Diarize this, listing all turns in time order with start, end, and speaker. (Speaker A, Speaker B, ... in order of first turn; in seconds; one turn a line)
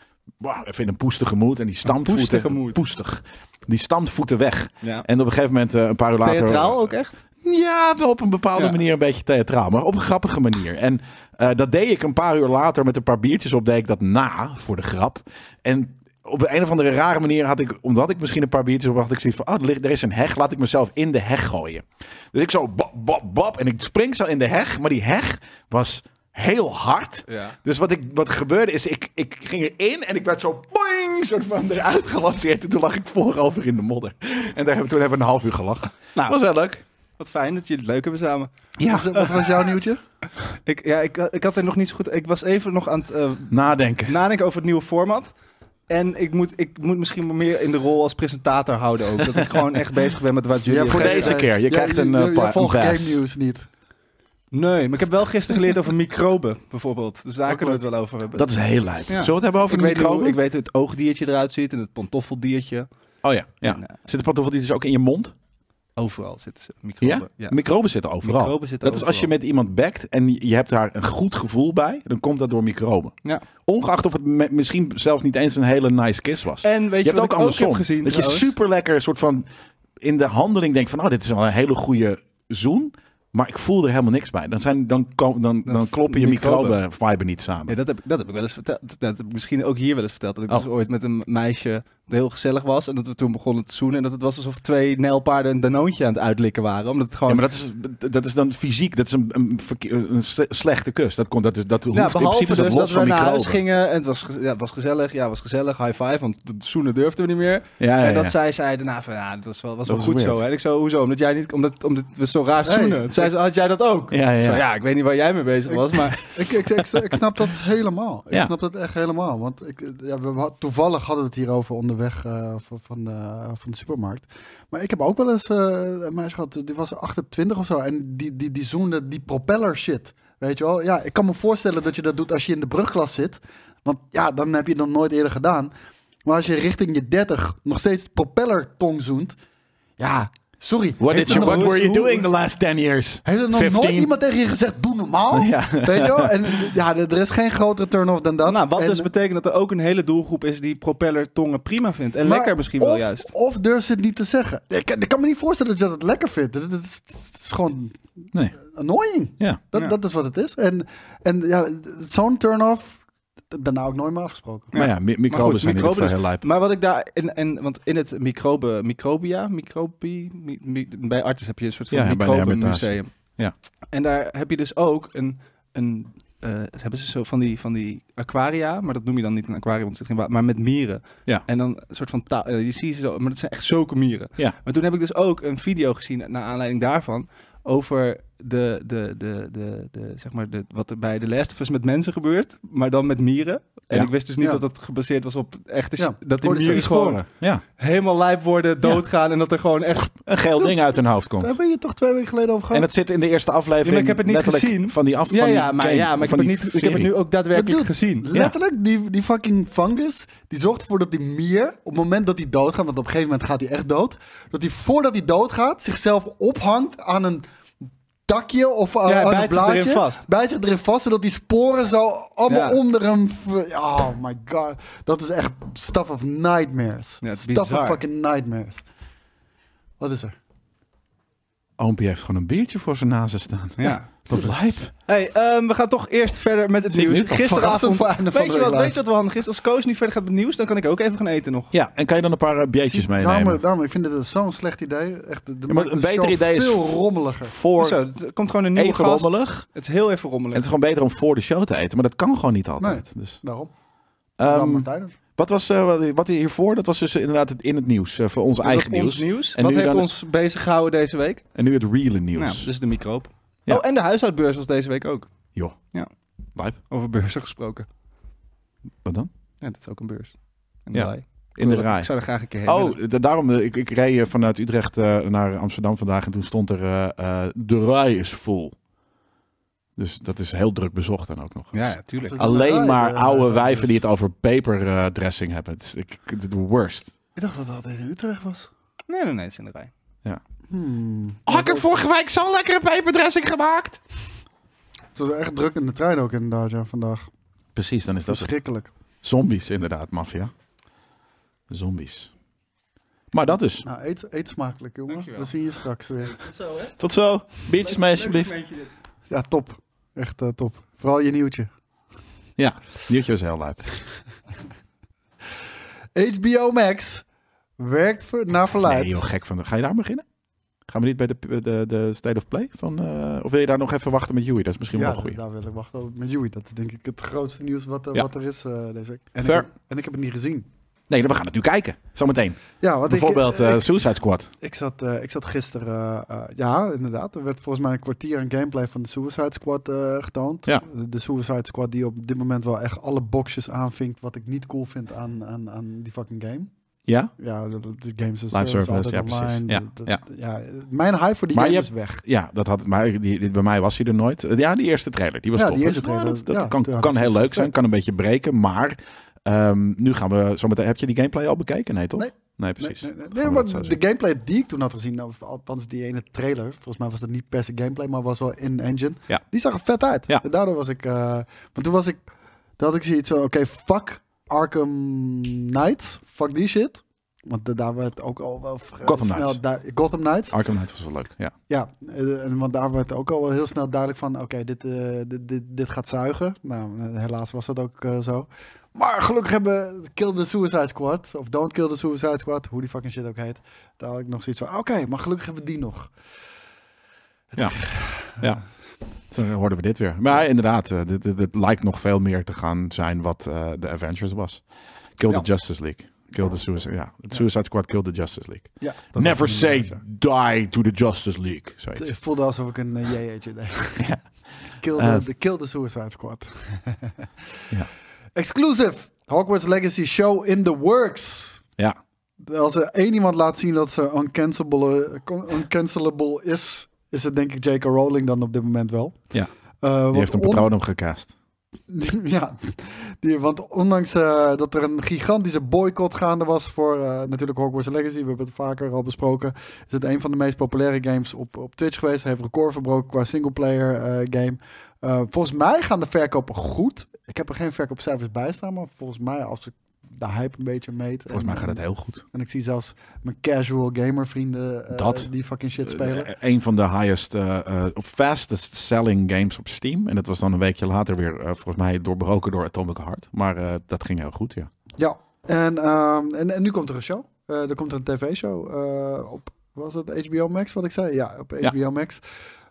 Speaker A: 0.4-36.8
Speaker B: 1.9-2.8
Speaker B: 6.2-7.2
Speaker B: 8.6-8.8
Speaker B: 27.3-27.6
Speaker B: 37.2-38.5
Speaker A: 38.8-39.3
Speaker C: 38.9-40.0
Speaker B: 39.1-39.5
Speaker B: 40.6-45.3
Speaker A: 43.5-44.1
Speaker B: 45.9-51.4
Speaker C: 50.7-53.7
Speaker A: 50.9-53.2
Speaker B: 54.5-58.5
Speaker C: 57.5-57.8
Speaker A: 58.4-60.4
Speaker B: 59.1-62.9
Speaker A: 63.2-65.3
Speaker B: 63.6-64.0
Speaker B: 66.0-67.6
Speaker A: 67.0-79.5
Speaker B: 68.2-69.3
Speaker B: 76.6-78.5
Speaker A: 80.0-87.8
Speaker B: 85.7-86.8
Speaker B: 87.7-97.5
Speaker A: 97.3-103.6
Speaker B: 101.9-116.3
Speaker A: 107.8-108.3
Speaker A: 109.9-110.4
Speaker C: 112.7-113.1
Speaker A: 114.1-114.6
Speaker C: 116.3-135.7
Speaker C: 136.2-139.4
Speaker C: 140.0-142.3
Speaker A: 141.0-144.1
Speaker B: 141.2-141.8
Speaker C: 143.2-149.1
Speaker A: 145.3-146.7
Speaker B: 148.4-153.3
Speaker C: 152.2-164.8
Speaker B: 164.7-173.1
Speaker A: 164.8-166.4
Speaker A: 171.9-173.5
Speaker B: 173.9-197.2
Speaker C: 196.0-197.1
Speaker A: 196.6-197.6
Speaker B: 197.8-200.2
Speaker A: 200.3-201.6
Speaker C: 201.4-202.9
Speaker A: 202.7-207.1
Speaker B: 203.8-208.3
Speaker C: 207.5-217.5
Speaker C: 218.3-228.8
Speaker B: 219.1-220.2
Speaker B: 222.5-222.8
Speaker B: 227.2-228.0
Speaker C: 230.0-230.3
Speaker A: 231.8-234.9
Speaker B: 233.8-234.2
Speaker B: 235.0-241.7
Speaker A: 236.9-237.5
Speaker C: 237.3-239.0
Speaker A: 241.7-243.6
Speaker C: 242.8-247.5
Speaker A: 245.7-248.0
Speaker B: 247.8-250.7
Speaker A: 248.8-249.7
Speaker A: 250.5-253.4
Speaker C: 252.8-253.7
Speaker A: 254.4-260.1
Speaker C: 254.5-255.2
Speaker B: 258.6-261.5
Speaker A: 261.6-262.7
Speaker B: 262.4-265.3
Speaker B: 266.9-267.9
Speaker A: 269.0-269.3
Speaker B: 269.6-273.0
Speaker A: 270.9-272.1
Speaker A: 272.6-278.8
Speaker A: 280.0-281.9
Speaker B: 281.7-282.4
Speaker C: 282.2-284.0
Speaker A: 282.4-287.1
Speaker C: 287.4-288.7
Speaker B: 289.1-289.9
Speaker C: 290.7-291.9
Speaker A: 291.5-294.0
Speaker C: 295.1-297.3
Speaker A: 297.8-298.5
Speaker C: 298.3-298.9
Speaker A: 299.2-300.5
Speaker A: 301.7-302.3
Speaker A: 303.3-303.9
Speaker C: 303.8-306.4
Speaker B: 305.1-305.5
Speaker B: 306.2-307.0
Speaker A: 307.0-308.6
Speaker B: 307.8-308.9
Speaker C: 309.3-311.7
Speaker A: 312.6-313.8
Speaker C: 316.1-317.2
Speaker C: 317.8-319.2
Speaker A: 318.8-320.2
Speaker A: 320.9-325.4
Speaker C: 324.9-330.7
Speaker A: 331.1-334.5
Speaker C: 332.8-333.9
Speaker C: 334.6-346.7
Speaker C: 347.4-352.2
Speaker A: 348.5-350.2
Speaker A: 351.5-364.0
Speaker C: 355.6-357.7
Speaker C: 362.2-372.2
Speaker C: 372.8-380.6
Speaker A: 379.0-379.6
Speaker A: 380.5-381.5
Speaker C: 381.7-396.1
Speaker C: 397.5-398.6
Speaker A: 399.3-404.6
Speaker A: 405.2-412.1
Speaker C: 408.8-410.0
Speaker C: 412.0-414.1
Speaker C: 414.8-417.3
Speaker A: 414.9-415.2
Speaker C: 418.4-421.6
Speaker C: 422.4-429.3
Speaker C: 429.8-430.7
Speaker A: 430.1-431.3
Speaker C: 431.9-451.8
Speaker A: 451.3-452.2
Speaker C: 452.3-456.3
Speaker A: 454.9-455.3
Speaker A: 455.9-464.7
Speaker C: 465.0-472.2